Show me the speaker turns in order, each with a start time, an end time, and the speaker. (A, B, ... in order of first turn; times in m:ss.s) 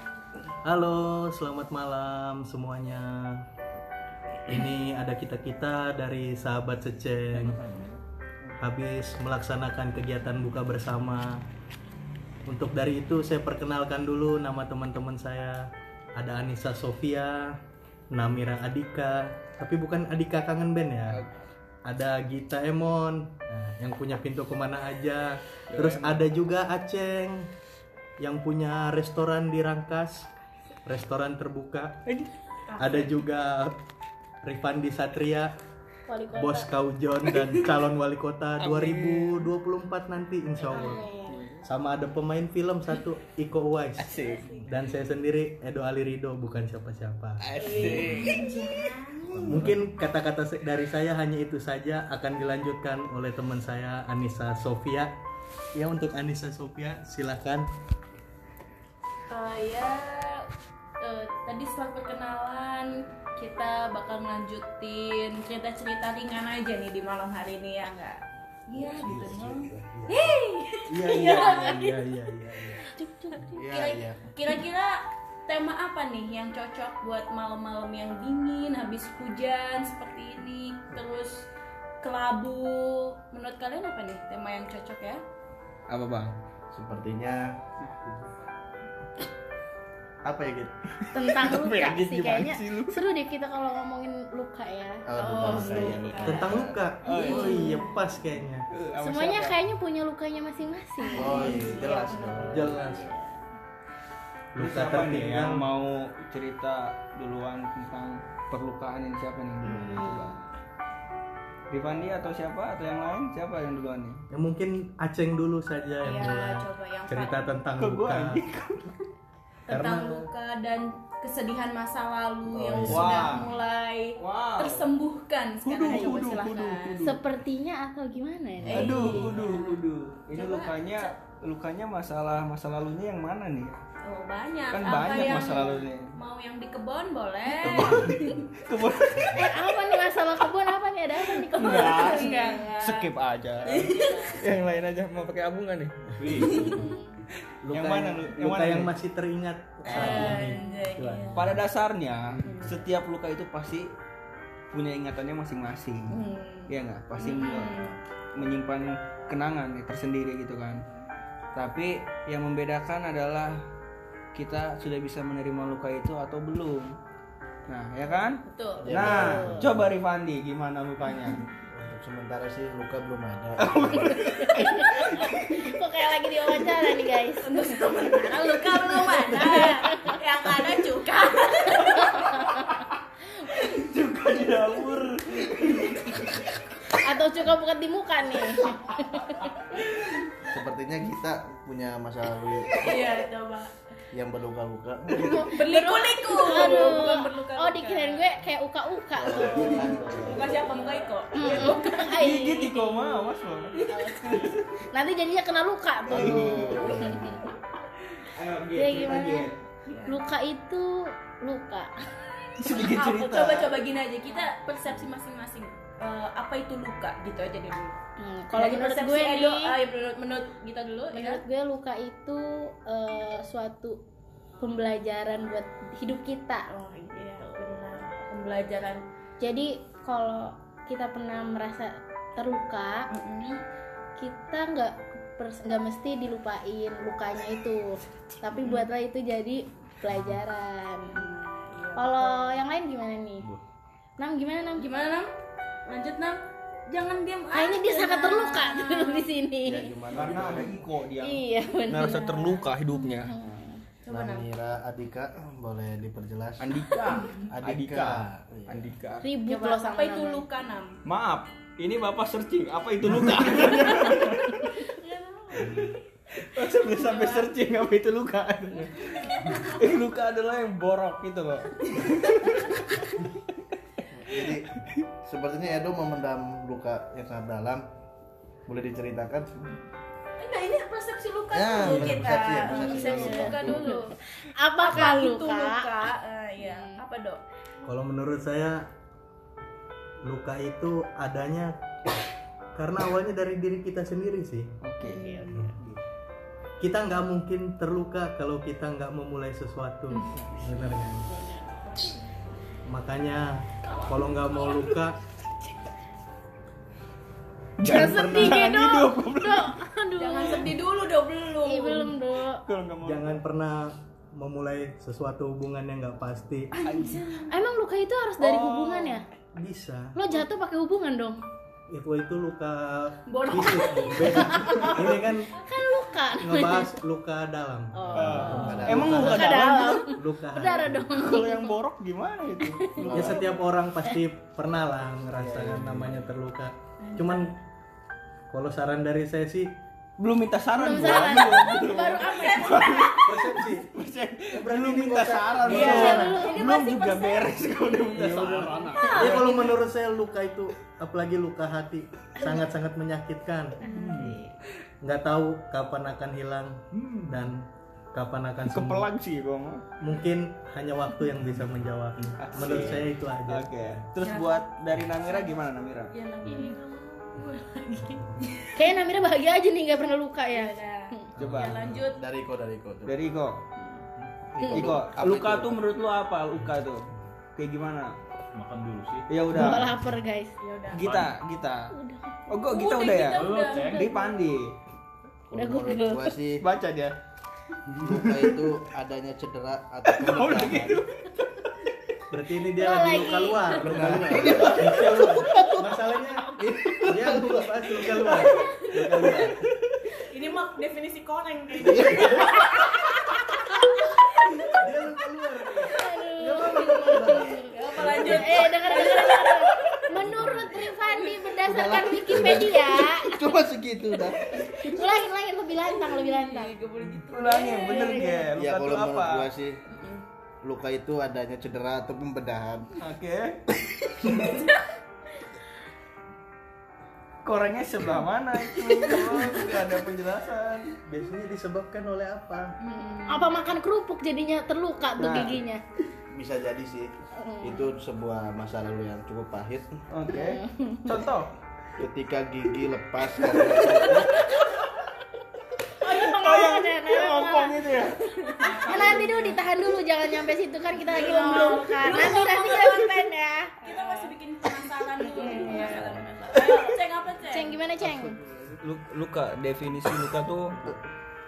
0:00.6-0:03.4 A
0:04.5-0:07.6 A
0:07.3-0:08.0 B
0:08.6-0:11.3 A
0:12.5-0:17.5 A
0:18.1-0:21.2 A
0:21.1-0:21.3 C
0:21.8-0:27.5 A
0:25.7-0:26.2 C
0:28.2-0:30.3 A
0:30.8-0:32.0 A
0:32.7-0:33.1 D
0:32.8-0:33.8 A
0:34.4-0:35.5 A
0:36.1-0:36.7 E
0:36.3-0:41.0 A
0:37.3-0:37.6 C
0:38.6-0:39.4 C
0:40.7-0:41.4 E
0:41.3-0:41.6 C
0:41.6-0:47.4 A
0:44.0-0:44.5 C
0:47.4-0:48.4 C
0:47.6-0:48.4 F
0:47.6-0:48.4 E
0:47.6-0:49.7 D
0:49.3-0:49.8 F
0:49.5-0:55.1 A
0:55.7-0:57.7 A
0:59.3-1:00.5 D
1:01.0-1:12.0 D
1:08.7-1:10.4 A
1:10.9-1:12.8 A
1:12.9-1:13.6 E
1:13.5-1:14.3 F
1:13.5-1:21.5 D
1:22.0-1:25.2 D
1:25.9-1:26.3 C
1:26.7-1:27.5 F
1:30.2-1:30.7 F
1:31.0-1:33.0 C
1:31.1-1:36.4 E
1:35.1-1:36.7 F
1:35.2-1:36.5 D
1:36.2-1:38.7 A
1:37.0-1:37.7 C
1:37.1-1:37.9 D
1:37.3-1:37.7 E
1:38.7-1:39.6 C
1:39.0-1:41.9 E
1:41.0-1:43.4 D
1:41.1-1:42.8 F
1:42.5-1:43.0 A
1:44.5-1:45.6 A
1:44.6-1:50.4 C
1:49.6-1:50.4 D
1:51.7-1:54.2 C
1:54.3-1:58.4 A
1:56.0-1:57.6 D
1:57.8-1:59.0 C
1:59.7-2:00.3 A
1:59.7-2:07.0 D
2:02.5-2:03.3 F
2:02.8-2:03.4 C
2:04.2-2:04.8 C
2:05.6-2:07.2 C
2:05.9-2:06.1 E
2:07.0-2:09.3 E
2:08.6-2:11.1 D
2:08.6-2:13.8 C
2:14.0-2:18.4 D
2:14.7-2:16.1 C
2:17.6-2:19.4 C
2:17.7-2:18.1 F
2:19.3-2:22.7 E
2:21.5-2:23.1 D
2:21.5-2:26.1 C
2:23.6-2:24.5 D
2:23.8-2:24.6 E
2:26.2-2:26.9 B
2:26.3-2:26.7 D
2:26.5-2:27.2 E
2:27.6-2:31.6 A
2:27.7-2:28.9 C
2:29.9-2:31.4 D
2:29.9-2:30.4 C
2:31.3-2:33.9 C
2:32.4-2:32.7 D
2:34.7-2:36.2 C
2:36.1-2:36.7 D
2:36.7-2:37.8 C
2:37.2-2:37.9 D
2:37.6-2:37.9 F
2:38.3-2:40.8 C
2:41.5-2:43.6 C
2:44.3-2:46.9 C
2:47.7-2:51.4 C
2:48.4-2:48.9 D
2:48.8-2:49.9 F
2:48.9-2:49.7 E
2:51.7-2:54.2 F
2:53.6-2:55.7 C
2:54.1-2:57.8 E
2:57.4-3:02.3 D
2:59.0-3:00.2 E
3:01.9-3:02.9 C
3:02.2-3:02.5 E
3:03.6-3:06.2 C
3:06.9-3:09.5 E
3:10.5-3:13.1 F
3:12.8-3:13.7 D
3:14.1-3:15.4 F
3:15.2-3:20.2 E
3:15.3-3:18.4 D
3:19.2-3:20.6 F
3:19.3-3:22.2 D
3:21.3-3:23.1 E
3:21.4-3:24.8 C
3:21.4-3:21.7 F
3:23.7-3:24.4 D
3:24.9-3:27.5 E
3:26.1-3:27.4 F
3:26.1-3:26.8 C
3:28.2-3:29.5 C
3:28.7-3:29.5 E
3:29.8-3:30.2 D
3:30.1-3:31.9 E
3:32.6-3:33.7 C
3:32.7-3:38.0 D
3:38.2-3:39.7 E
3:38.5-3:41.4 D
3:41.1-3:44.0 E
3:44.6-3:46.7 E
3:46.7-3:49.0 D
3:49.4-3:53.1 E
3:53.1-3:53.6 D
3:54.2-4:01.2 E
4:01.1-4:02.6 D
4:02.0-4:03.5 E
4:04.2-4:04.9 E
4:04.8-4:05.3 D
4:05.9-4:09.3 D
4:07.5-4:09.9 E
4:09.6-4:10.8 F
4:10.1-4:13.3 C
4:11.2-4:13.8 E
4:12.0-4:12.6 D
4:14.0-4:14.4 D
4:14.1-4:16.7 F
4:16.6-4:19.2 C
4:17.5-4:18.8 F
4:19.2-4:20.4 E
4:19.4-4:21.0 D
4:21.0-4:24.8 C
4:23.6-4:25.9 D
4:25.6-4:25.9 B
4:26.4-4:29.0 C
4:26.9-4:27.5 D
4:28.7-4:29.9 D
4:29.6-4:33.3 C
4:34.1-4:34.7 F
4:35.2-4:37.8 F
4:38.7-4:39.5 F
4:40.4-4:44.2 D
4:41.5-4:43.9 F
4:41.8-4:42.4 A
4:42.8-4:45.9 E
4:44.8-4:47.4 D
4:46.6-4:47.0 E
4:47.8-4:48.8 A
4:50.2-4:51.7 A
4:52.7-4:54.7 A
4:54.8-4:55.2 C
4:55.0-4:55.6 D
4:55.0-4:55.6 E
4:55.6-4:56.0 B
4:56.8-5:01.3 A
5:01.2-5:02.2 D
5:02.8-5:05.2 A
5:03.8-5:05.0 D
5:07.8-5:09.8 C
5:07.8-5:08.6 A
5:07.8-5:10.7 E
5:10.2-5:12.1 D
5:11.6-5:12.6 E
5:12.5-5:13.4 C
5:13.0-5:16.7 A
5:16.7-5:17.7 D
5:16.8-5:17.2 C
5:17.5-5:19.2 E
5:18.4-5:19.2 C
5:19.5-5:20.2 A
5:20.1-5:21.4 E
5:21.9-5:25.6 A
5:23.3-5:24.9 D
5:24.2-5:26.9 E
5:26.4-5:31.1 A
5:27.9-5:31.8 E
5:28.1-5:30.1 C
5:28.2-5:29.6 F
5:28.4-5:28.8 D
5:31.1-5:32.8 C
5:32.6-5:33.5 E
5:33.0-5:33.4 F
5:33.1-5:37.5 A
5:35.4-5:36.0 F
5:37.0-5:37.5 D
5:38.5-5:39.7 A
5:40.2-5:49.5 C
5:40.8-5:43.2 E
5:41.5-5:43.1 D
5:43.2-5:43.9 A
5:44.5-5:46.3 A
5:45.7-5:47.6 E
5:45.7-5:46.6 D
5:48.1-5:49.1 B
5:48.8-5:49.7 D
5:49.1-5:53.8 A
5:53.8-5:54.5 D
5:53.8-5:54.3 E
5:53.9-5:54.4 C
5:55.0-5:59.1 A
5:56.9-5:57.4 B
5:58.7-5:59.8 C
6:00.0-6:04.0 A
6:02.4-6:06.1 C
6:02.6-6:02.8 F
6:04.2-6:04.7 D
6:05.2-6:05.5 D
6:06.1-6:08.9 D
6:06.5-6:06.7 E
6:08.7-6:11.3 E
6:10.5-6:12.2 D
6:11.4-6:11.9 C
6:11.4-6:12.0 B
6:12.1-6:13.2 F
6:13.1-6:13.6 C
6:14.5-6:15.7 F
6:14.6-6:14.9 E
6:14.7-6:17.0 C
6:17.6-6:18.1 C
6:18.5-6:19.3 B
6:19.3-6:19.9 C
6:19.5-6:20.5 E
6:20.6-6:21.0 D
6:20.9-6:21.9 C
6:21.0-6:21.4 B
6:21.9-6:22.4 E
6:22.5-6:24.7 C
6:22.7-6:24.3 D
6:23.3-6:24.2 B
6:25.5-6:26.6 F
6:25.5-6:26.4 E
6:26.6-6:27.1 C
6:28.0-6:31.0 F
6:30.1-6:31.7 C
6:32.3-6:39.6 A
6:32.8-6:34.0 E
6:33.8-6:35.9 C
6:33.9-6:35.6 F
6:36.6-6:37.7 F
6:38.6-6:38.9 D
6:40.3-6:43.1 D
6:41.8-6:42.5 F
6:44.7-6:48.5 A
6:45.9-6:53.4 E
6:47.7-6:51.5 D
6:51.6-6:54.5 F
6:54.5-6:55.0 D
6:54.7-6:56.7 E
6:55.8-6:58.4 D
6:57.3-6:59.5 C
6:57.8-6:58.5 E
6:58.6-6:59.8 F
6:59.9-7:00.2 D
7:00.6-7:02.9 F
7:03.0-7:03.6 C
7:04.3-7:04.8 D
7:07.4-7:10.9 C
7:08.9-7:09.7 E
7:11.0-7:12.7 A
7:12.8-7:13.6 D
7:13.3-7:15.8 E
7:15.2-7:15.6 C
7:16.3-7:17.1 F
7:17.4-7:17.9 E
7:17.6-7:19.9 F
7:20.1-7:21.5 C
7:20.3-7:21.2 E
7:22.0-7:24.4 F
7:23.5-7:24.3 C
7:26.0-7:34.3 E
7:26.0-7:29.4 C
7:28.6-7:29.6 D
7:31.1-7:33.2 D
7:31.2-7:32.4 C
7:33.8-7:37.8 D
7:35.2-7:36.2 E
7:35.7-7:36.0 C
7:36.5-7:36.8 C
7:37.5-7:38.4 E
7:38.0-7:38.8 F
7:38.8-7:40.8 C